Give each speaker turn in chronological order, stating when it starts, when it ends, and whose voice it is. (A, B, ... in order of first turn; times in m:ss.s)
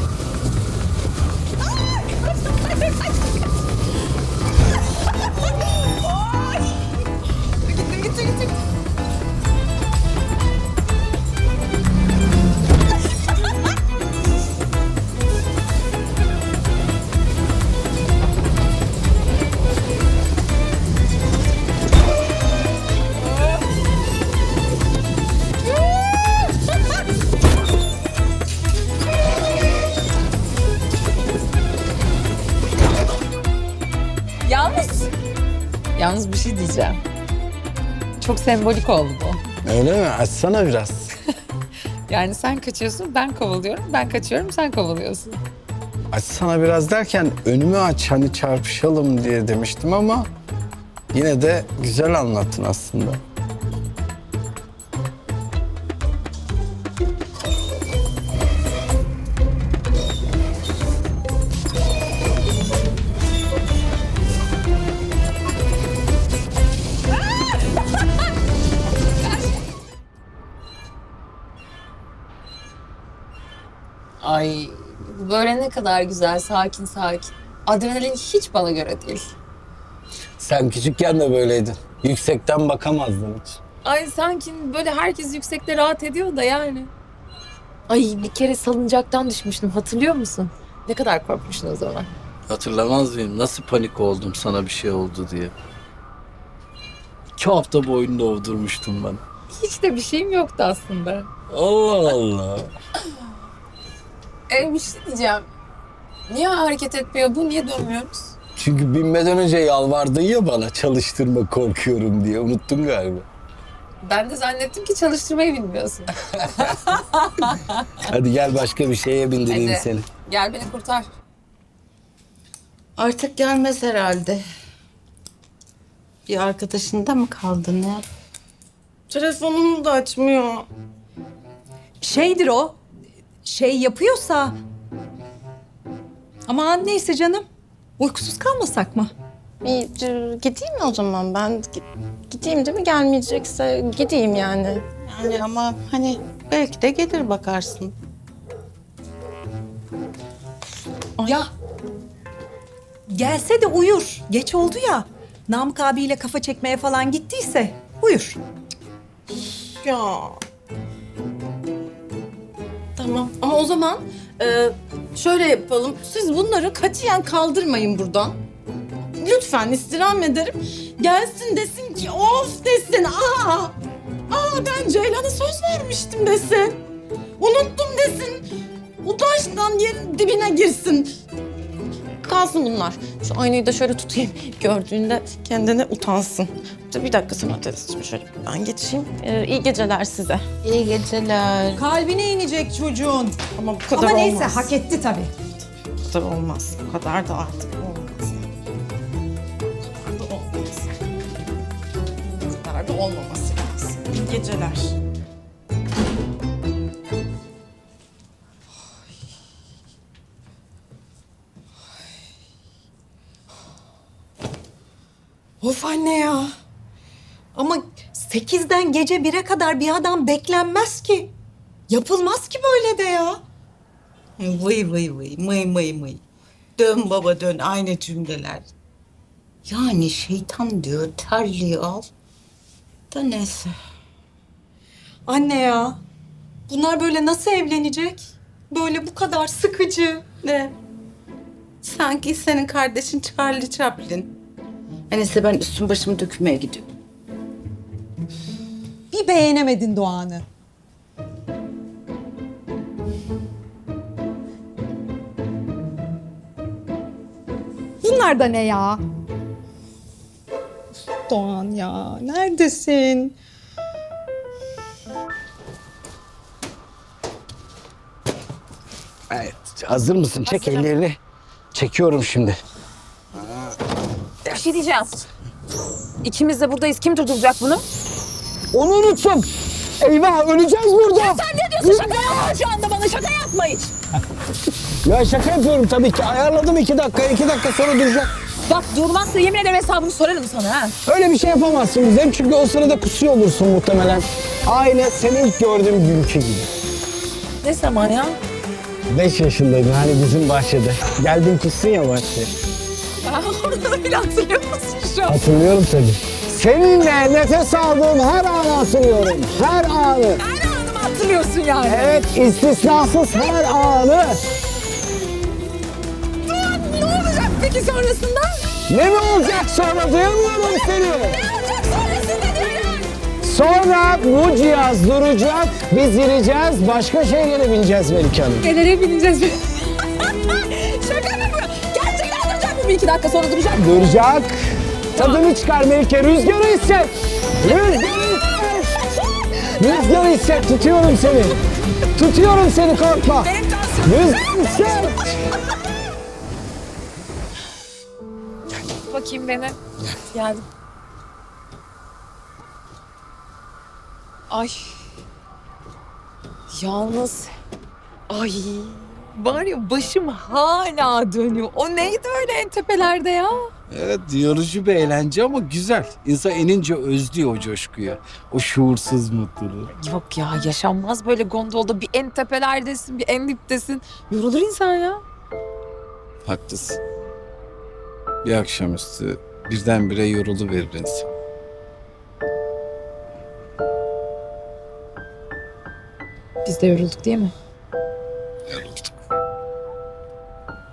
0:07.7-0:08.4 A
0:34.4-0:35.1 A
0:36.0-0:37.0 A
0:38.2-0:39.4 A
0:39.6-0:41.1 B
0:42.1-0:45.4 A
0:46.1-0:50.3 B
0:51.1-0:53.2 B
1:14.2-1:19.3 A
1:20.4-1:23.6 B
1:23.8-1:26.9 A
1:27.9-1:32.1 A
1:32.5-1:35.5 C
1:37.4-1:39.2 C
1:39.5-1:41.3 A
1:41.5-1:42.7 B
1:44.5-1:45.4 A
1:46.3-1:48.3 A
1:48.6-1:53.2 B
1:54.0-1:58.1 A
1:56.3-1:56.7 B
1:58.0-2:00.0 B
1:59.5-2:01.1 A
2:03.0-2:04.4 D
2:06.3-2:08.0 D
2:09.1-2:10.7 E
2:12.0-2:12.8 F
2:13.4-2:14.6 F
2:16.5-2:17.4 F
2:18.0-2:19.1 F
2:19.6-2:24.8 E
2:25.0-2:27.9 D
2:33.1-2:38.4 F
2:39.8-2:40.4 E
2:43.0-2:48.4 E
2:49.2-2:53.7 E
2:54.3-2:56.8 E
2:57.4-2:58.4 E
2:59.0-3:01.1 E
3:02.2-3:10.4 E
3:10.6-3:11.8 D
3:11.7-3:13.4 F
3:13.6-3:14.7 E
3:13.9-3:15.3 F
3:16.0-3:18.6 E
3:19.8-3:20.9 E
3:22.3-3:24.9 E
3:35.6-3:36.5 F
3:37.5-3:41.3 F
3:41.9-3:43.4 F
3:44.4-3:46.2 D
3:46.8-3:48.7 D
3:49.6-3:52.1 D
3:53.1-3:53.7 D
3:55.3-3:56.0 F
3:56.7-4:00.2 F
4:00.4-4:00.7 D
4:01.8-4:04.3 D
4:05.1-4:06.8 D
4:09.1-4:10.4 F
4:18.0-4:19.0 F
4:21.3-4:23.3 F
4:29.3-4:31.2 B
4:30.4-4:30.9 A
4:31.7-4:32.6 B
4:34.4-4:35.2 A
4:36.2-4:37.8 A
4:38.7-4:39.5 B
4:40.0-4:42.2 B
4:41.1-4:43.9 A
4:45.0-4:48.3 B
4:48.6-4:51.0 A
4:51.0-4:56.7 B
4:57.6-4:58.4 A
4:59.1-5:02.5 B
5:03.2-5:05.4 A
5:05.3-5:10.4 B
5:10.4-5:12.2 A
5:11.8-5:14.4 B
5:16.5-5:18.7 A
5:18.9-5:21.4 B
5:21.0-5:23.0 A
5:23.4-5:28.7 B
5:28.6-5:33.9 A
5:33.8-5:34.5 B
5:35.1-5:39.0 B
5:35.1-5:35.4 A
5:37.6-5:38.4 A
5:39.8-5:41.6 B
5:39.8-5:40.3 A
5:42.1-5:43.5 B
5:43.3-5:45.3 A
5:44.0-5:45.4 B
5:49.1-5:49.8 A
5:50.3-5:50.6 A
5:54.5-5:55.0 A
5:56.7-5:57.5 A
5:58.3-6:03.7 A
6:03.9-6:09.9 C
6:10.0-6:15.2 A
6:16.4-6:17.0 C
6:18.4-6:21.3 C
6:26.6-6:27.5 A
6:28.7-6:29.1 C